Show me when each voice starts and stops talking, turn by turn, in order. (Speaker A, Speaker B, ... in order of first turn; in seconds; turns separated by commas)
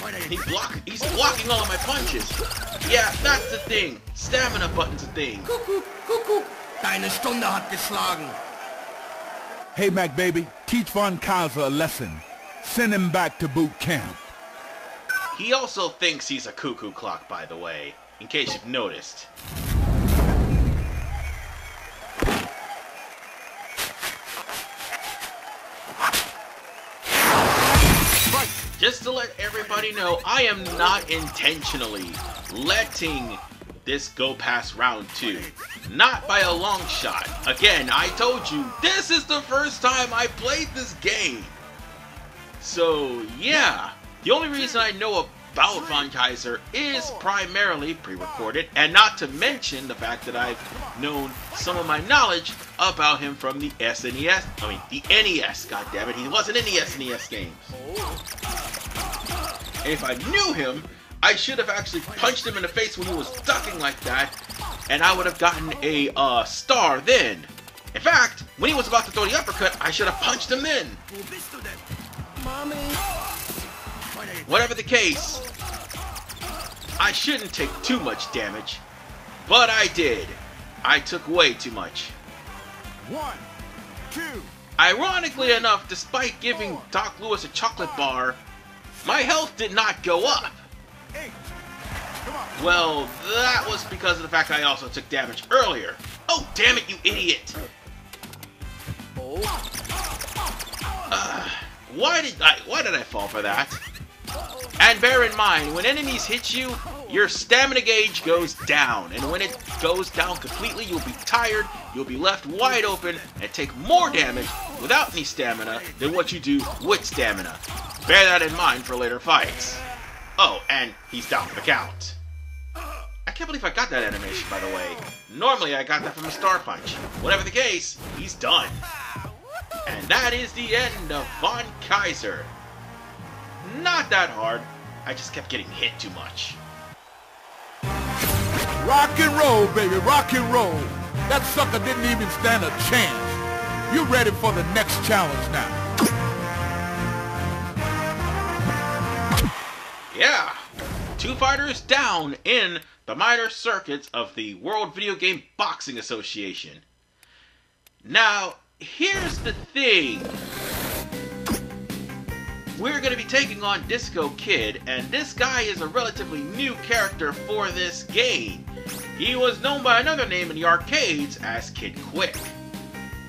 Speaker A: 0.2-5.6, Speaker B: 5.8-8.4, Speaker C: 9.8-14.2, Speaker A: 15.3-19.3, Speaker A: 28.8-41.6, Speaker A: 42.6-57.7, Speaker A: 59.8-64.3, Speaker A: 64.9-71.0, Speaker B: 72.5-72.9, Speaker A: 74.5-75.4, Speaker A: 77.0-78.8, Speaker A: 79.4-82.2, Speaker C: 83.0-83.5, Speaker C: 84.1-84.5, Speaker A: 84.8-88.4, Speaker A: 89.0-90.7, Speaker C: 91.2-91.5, Speaker A: 92.6-97.6, Speaker A: 101.1-103.8, Speaker A: 104.8-119.8, Speaker A: 120.4-122.2, Speaker A: 123.3-128.8, Speaker A: 129.9-132.5, Speaker A: 133.6-136.6, Speaker C: 138.8-145.8, Speaker A: 150.1-150.6, Speaker A: 151.2-156.8, Speaker A: 158.0-160.4, Speaker A: 162.8-172.6